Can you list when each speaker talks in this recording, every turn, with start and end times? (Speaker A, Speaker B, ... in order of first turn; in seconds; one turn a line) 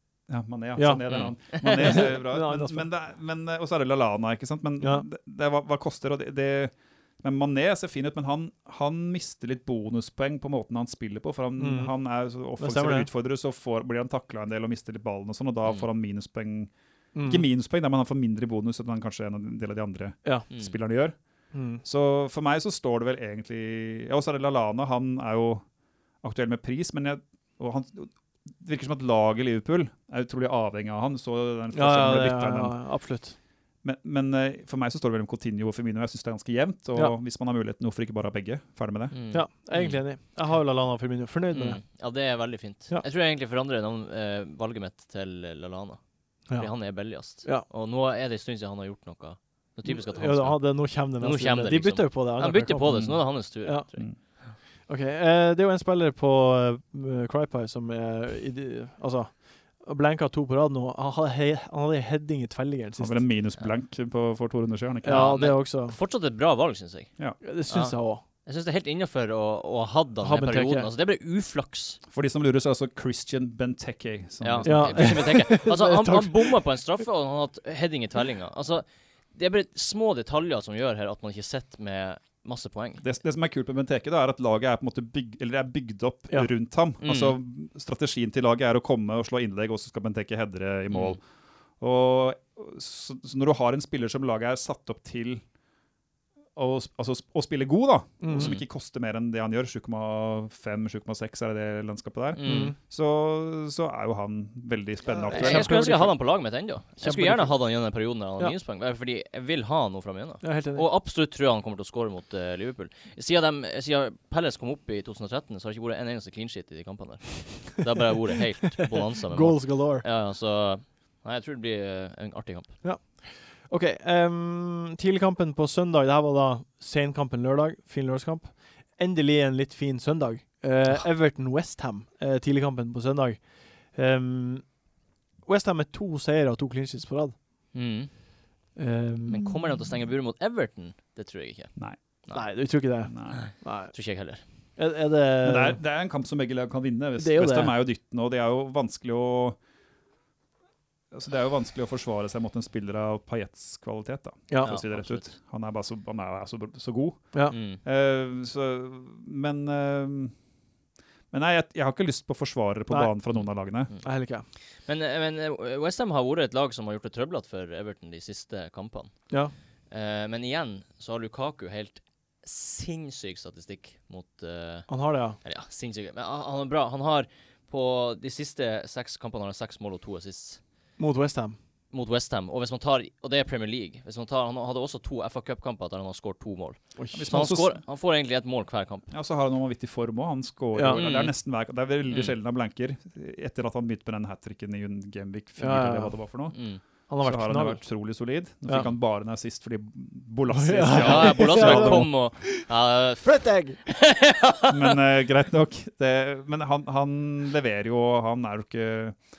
Speaker A: 0.3-16.7
Speaker B: 0.8-1.0
Speaker C: 1.1-2.0
Speaker B: 1.6-2.9
Speaker B: 4.8-5.1
Speaker B: 11.6-11.9
Speaker B: 12.6-13.1
Speaker B: 17.1-17.4
Speaker A: 17.2-21.1
Speaker B: 21.5-21.8
Speaker A: 21.8-25.6
Speaker A: 26.2-32.8
Speaker B: 31.7-33.4
Speaker A: 33.8-39.1
Speaker C: 39.1-40.0
Speaker B: 39.3-41.8
Speaker C: 41.5-54.0
Speaker B: 46.5-47.6
Speaker B: 49.8-53.9
Speaker A: 52.9-53.2
Speaker B: 54.9-63.2
Speaker A: 63.0-65.3
Speaker B: 65.0-66.0
Speaker C: 65.0-72.0
Speaker B: 67.4-68.2
Speaker B: 70.2-70.9
Speaker A: 72.1-75.2
Speaker C: 74.4-83.0
Speaker B: 74.6-76.6
Speaker A: 83.0-91.2
Speaker C: 87.0-87.4
Speaker C: 90.9-91.2
Speaker A: 91.8-95.4
Speaker A: 96.5-105.8
Speaker B: 98.2-98.5
Speaker C: 98.3-98.6
Speaker C: 102.3-102.7
Speaker B: 102.4-102.8
Speaker B: 105.1-106.2
Speaker C: 105.3-122.8
Speaker B: 107.0-107.6
Speaker B: 110.4-110.9
Speaker B: 119.1-120.0
Speaker B: 122.8-134.7
Speaker B: 135.4-137.4
Speaker C: 137.7-138.1
Speaker B: 138.7-139.6
Speaker C: 139.3-141.7
Speaker B: 142.3-143.9
Speaker A: 143.1-143.4
Speaker C: 143.3-144.4
Speaker B: 144.8-145.8
Speaker A: 145.4-149.6
Speaker B: 147.2-147.8
Speaker A: 151.1-160.3
Speaker B: 154.5-154.8
Speaker C: 154.6-155.3
Speaker C: 157.5-157.8
Speaker A: 161.3-163.9
Speaker B: 164.0-164.4
Speaker C: 164.8-169.4
Speaker C: 169.9-180.6
Speaker B: 174.9-175.4
Speaker B: 181.0-181.6
Speaker C: 181.9-189.1
Speaker B: 187.0-187.3
Speaker A: 187.1-187.8
Speaker A: 189.1-196.6
Speaker B: 190.7-191.0
Speaker C: 190.9-191.3
Speaker C: 192.1-192.3
Speaker B: 195.6-196.2
Speaker C: 196.5-196.8
Speaker B: 197.1-197.8
Speaker A: 197.2-202.1
Speaker B: 200.5-202.7
Speaker C: 200.9-205.0
Speaker B: 203.2-203.8
Speaker A: 204.7-209.2